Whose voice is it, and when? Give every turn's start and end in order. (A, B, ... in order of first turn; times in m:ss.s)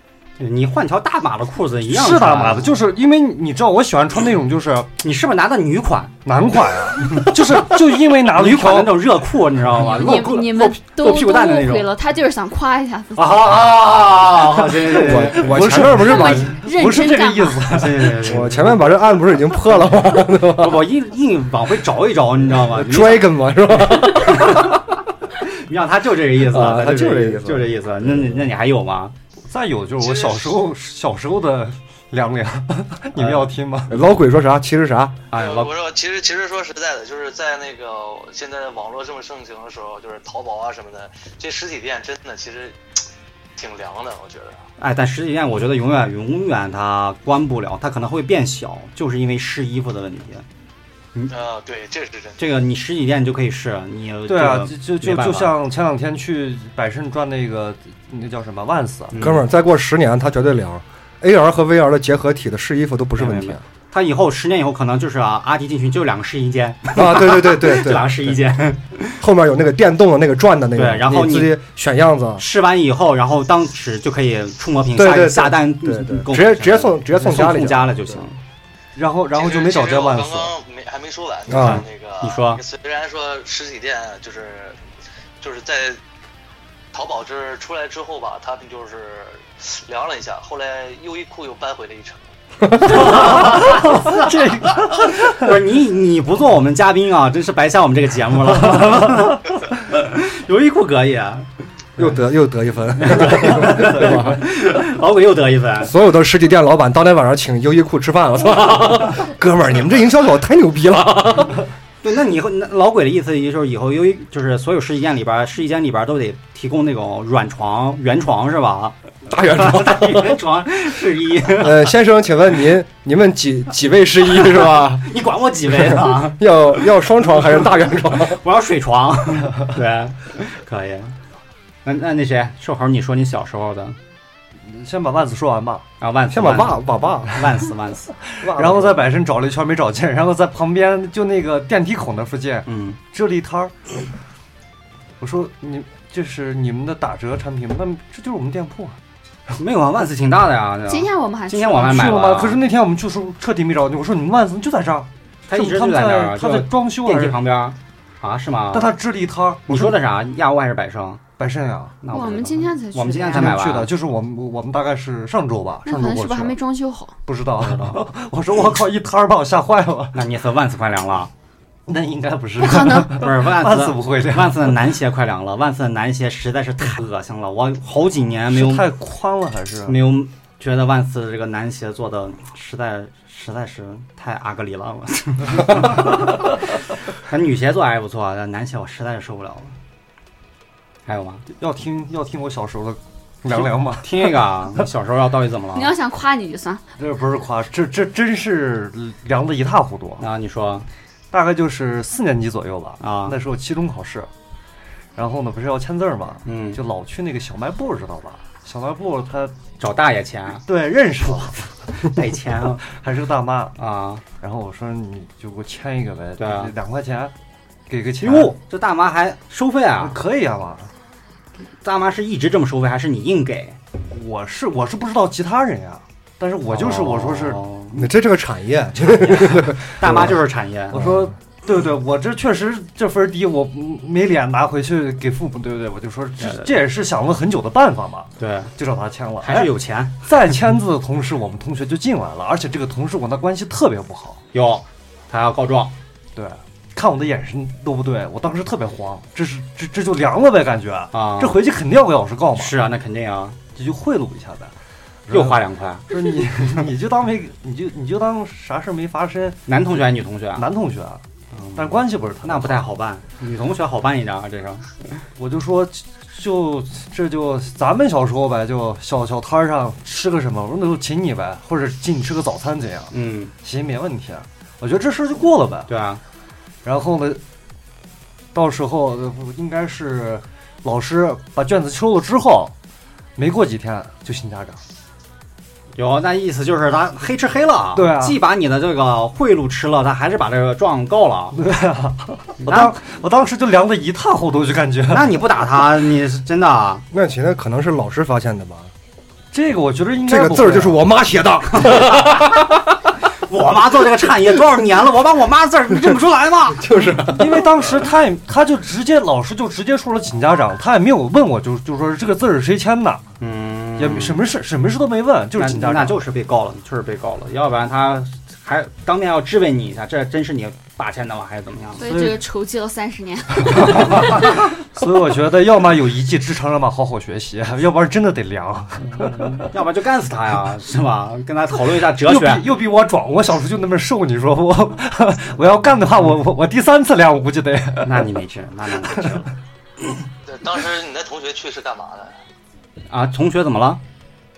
0:00.4-0:02.8 A
0:01.9-0:04.9 B
0:05.0-0:06.2 A
0:06.2-0:09.3 B
0:07.0-0:07.8 A
0:08.3-0:11.9 A
0:09.7-0:13.5 C
0:13.2-0:15.7 A
0:14.9-0:16.6 D
0:15.0-0:18.3 B
0:15.8-0:17.7 C
0:17.7-0:18.9 A
0:18.3-0:20.8 D
0:20.3-0:24.8 A
0:22.6-0:24.7 D
0:25.4-0:29.1 A
0:26.4-0:28.3 D
0:29.5-0:34.0 B
0:30.0-0:30.4 E
0:33.2-0:33.5 A
0:33.9-0:35.2 D
0:35.3-0:35.7 A
0:35.3-0:42.8 E
0:43.6-0:44.6 E
0:44.8-0:50.4 A
0:51.3-0:52.4 E
0:52.4-0:55.6 A
0:54.3-0:59.2 B
0:59.1-0:59.4 A
0:59.2-1:03.6 D
1:03.2-1:09.2 A
1:06.9-1:08.4 D
1:09.2-1:12.4 D
1:10.8-1:11.6 A
1:12.4-1:18.4 A
1:14.9-1:18.2 D
1:19.0-1:20.5 B
1:19.4-1:24.8 E
1:21.5-1:21.8 D
1:21.6-1:22.6 A
1:25.4-1:26.0 E
1:26.9-1:32.2 E
1:32.8-1:33.1 D
1:32.9-1:35.5 B
1:33.0-1:34.3 A
1:35.3-1:41.5 A
1:42.0-1:44.4 D
1:43.0-1:45.9 A
1:45.8-1:51.6 D
1:52.0-2:01.9 A
1:59.3-2:00.4 D
2:01.6-2:05.1 D
2:04.3-2:06.5 A
2:05.8-2:08.4 D
2:08.1-2:11.2 A
2:11.8-2:14.0 A
2:14.6-2:15.8 B
2:16.0-2:18.8 A
2:16.3-2:17.3 D
2:18.3-2:23.7 B
2:22.7-2:23.0 A
2:25.2-2:29.0 B
2:29.6-2:32.6 A
2:30.9-2:32.2 C
2:31.8-2:37.4 B
2:35.5-2:38.9 A
2:38.7-2:40.0 B
2:39.7-2:41.2 A
2:41.4-2:42.0 B
2:42.0-2:43.9 A
2:42.1-2:43.7 C
2:43.3-2:46.6 B
2:45.8-2:47.2 C
2:47.3-2:50.2 B
2:47.6-2:48.0 A
2:50.1-2:51.3 A
2:51.9-2:54.9 B
2:52.6-2:53.2 C
2:53.1-2:58.9 A
2:58.5-3:00.1 B
2:59.9-3:06.4 A
3:07.2-3:09.7 A
3:11.1-3:11.4 A
3:11.5-3:14.4 B
3:13.5-3:15.9 A
3:15.7-3:16.8 C
3:17.0-3:20.3 B
3:20.2-3:20.9 A
3:21.3-3:24.3 B
3:23.0-3:23.4 A
3:25.2-3:29.6 B
3:26.4-3:26.8 A
3:29.8-3:30.6 A
3:30.7-3:31.7 B
3:32.0-3:32.8 A
3:32.9-3:33.8 B
3:33.8-3:34.2 A
3:34.3-3:37.3 B
3:36.4-3:36.7 A
3:37.9-3:38.5 B
3:38.2-3:40.2 A
3:40.0-3:40.9 B
3:41.8-3:43.8 A
3:44.1-3:47.7 B
3:46.7-3:48.1 A
3:48.0-3:50.3 D
3:49.2-3:51.0 A
3:50.9-4:04.4 B
3:51.0-3:51.2 D
3:56.4-3:56.7 A
3:58.4-3:58.7 A
3:59.4-4:00.3 A
4:04.5-4:05.9 A
4:06.4-4:12.8 B
4:11.1-4:11.6 A
4:12.6-4:13.6 A
4:13.8-4:14.7 B
4:15.3-4:19.6 B
4:15.3-4:16.2 A
4:19.7-4:20.7 A
4:20.6-4:21.2 B
4:21.5-4:25.2 A
4:21.8-4:22.8 B
4:25.4-4:35.9 B
4:33.1-4:33.5 A
4:35.9-4:36.2 A
4:36.8-4:37.4 B
4:38.5-4:42.7 B
4:43.4-4:44.8 B
4:46.0-4:51.6 A
4:48.0-4:48.4 B
4:51.5-4:55.4 B
4:52.6-4:52.9 A
4:55.1-4:57.0 A
4:57.1-4:58.9 D
4:59.5-5:01.0 B
5:00.3-5:02.7 D
5:01.8-5:02.4 A
5:03.5-5:07.0 A
5:06.8-5:07.7 D
5:07.3-5:13.2 B
5:13.4-5:14.4 A
5:14.0-5:16.3 B
5:15.6-5:22.0 A
5:22.0-5:24.5 C
5:22.0-5:22.4 B
5:23.6-5:29.7 B
5:29.1-5:32.6 A
5:32.2-5:38.3 B
5:38.0-5:39.5 A
5:39.0-5:39.3 B
5:40.5-5:42.3 E
5:43.1-5:44.0 A